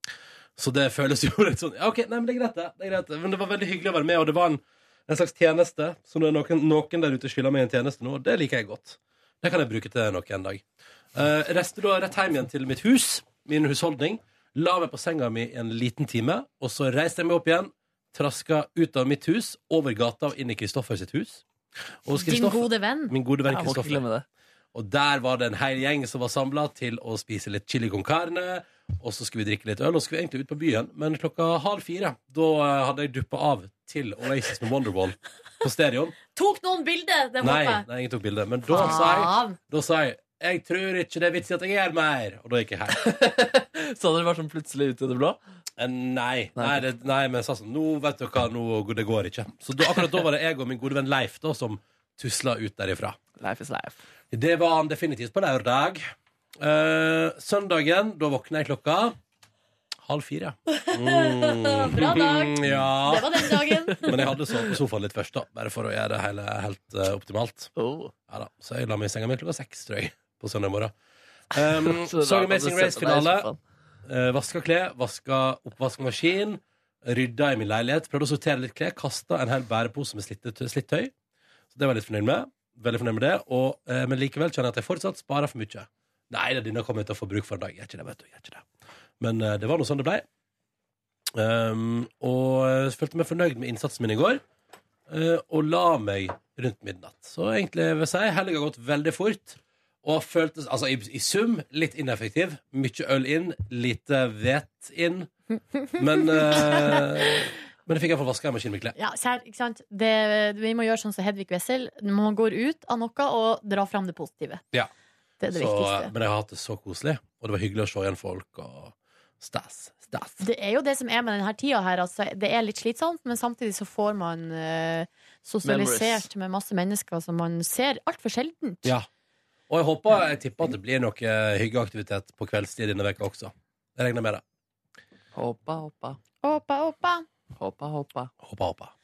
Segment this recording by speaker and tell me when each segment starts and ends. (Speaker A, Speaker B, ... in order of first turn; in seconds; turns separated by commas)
Speaker A: 0.6-21.4, Speaker A: 22.1-24.0, Speaker B: 22.1-23.1, Speaker C: 23.5-24.2, Speaker A: 24.7-36.1, Speaker B: 36.3-37.9, Speaker A: 37.4-43.0, Speaker B: 38.7-39.6, Speaker C: 43.0-45.4, Speaker A: 45.8-53.2, Speaker C: 46.5-46.8, Speaker C: 53.4-54.0, Speaker A: 54.3-56.0, Speaker A: 56.6-59.2, Speaker A: 60.0-67.7, Speaker B: 60.7-64.1, Speaker C: 63.9-64.6, Speaker C: 67.8-68.1, Speaker A: 68.3-70.9, Speaker A: 71.5-73.5, Speaker C: 71.6-73.6, Speaker A: 74.0-81.1, Speaker A: 81.7-88.7, Speaker A: 89.2-90.2, Speaker A: 91.3-94.4, Speaker A: 95.1-105.3, Speaker A: 105.9-108.9, Speaker B: 106.5-107.0, Speaker B: 109.0-114.6, Speaker B: 115.4-116.1, Speaker A: 115.5-120.4, Speaker B: 120.4-128.9, Speaker C: 125.6-126.3, Speaker A: 129.7-134.4, Speaker C: 135.3-136.2, Speaker B: 136.4-137.2, Speaker C: 137.6-138.3, Speaker A: 138.4-138.9